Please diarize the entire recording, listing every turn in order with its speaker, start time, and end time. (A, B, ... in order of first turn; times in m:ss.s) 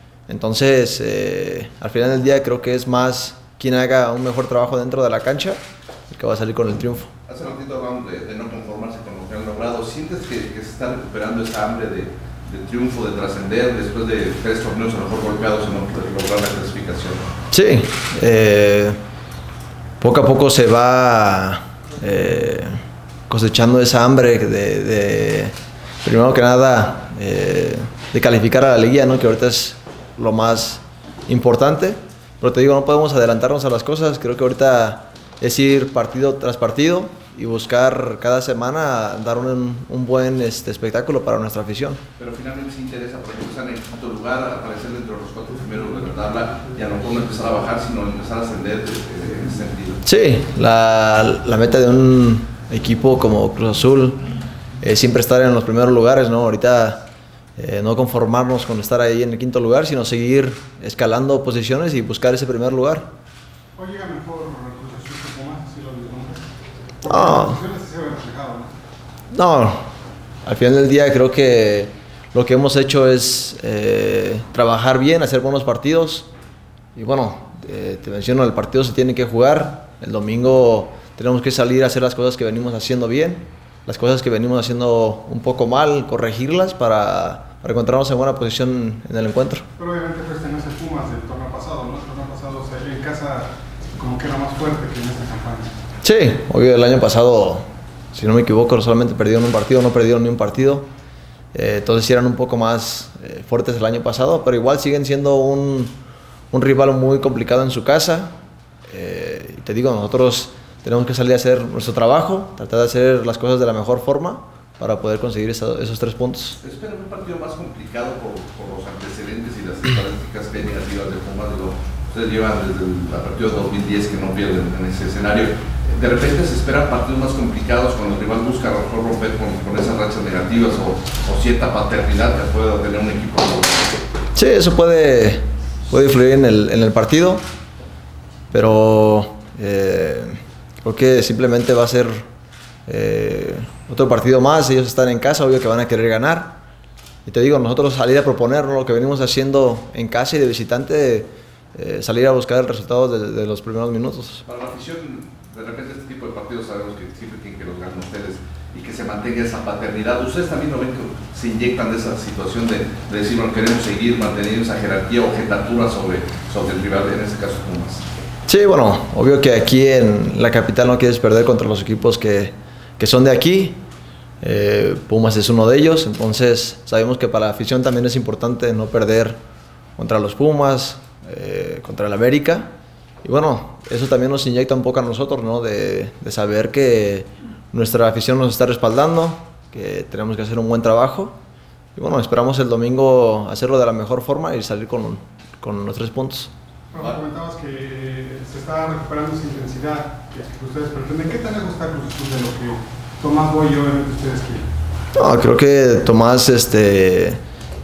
0:00.3-0:07.1 A
0:07.3-0:17.2 B
0:17.5-0:19.0 A
0:20.0-0:22.8 A
0:23.3-0:42.0 A
0:42.2-0:50.0 B
0:50.0-0:54.2 A
0:54.8-1:03.1 A
1:03.8-1:06.4 C
1:07.0-1:08.7 C
1:07.1-1:07.6 A
1:09.3-1:09.8 A
1:10.4-1:16.3 A
1:16.9-1:29.6 A
1:29.8-1:35.7 C
1:36.0-1:40.9 A
1:41.5-1:45.9 A
1:46.5-1:48.3 A
1:48.9-1:56.6 A
1:56.6-2:13.9 B
2:14.4-2:17.4 A
2:18.5-2:22.2 A
2:22.8-2:26.6 A
2:27.2-2:34.4 A
2:34.4-2:48.0 B
2:48.5-2:53.8 A
2:54.4-2:59.4 A
3:00.0-3:02.7 A
3:03.2-3:11.4 A
3:12.0-3:16.5 A
3:16.9-3:24.6 C
3:25.1-3:27.4 A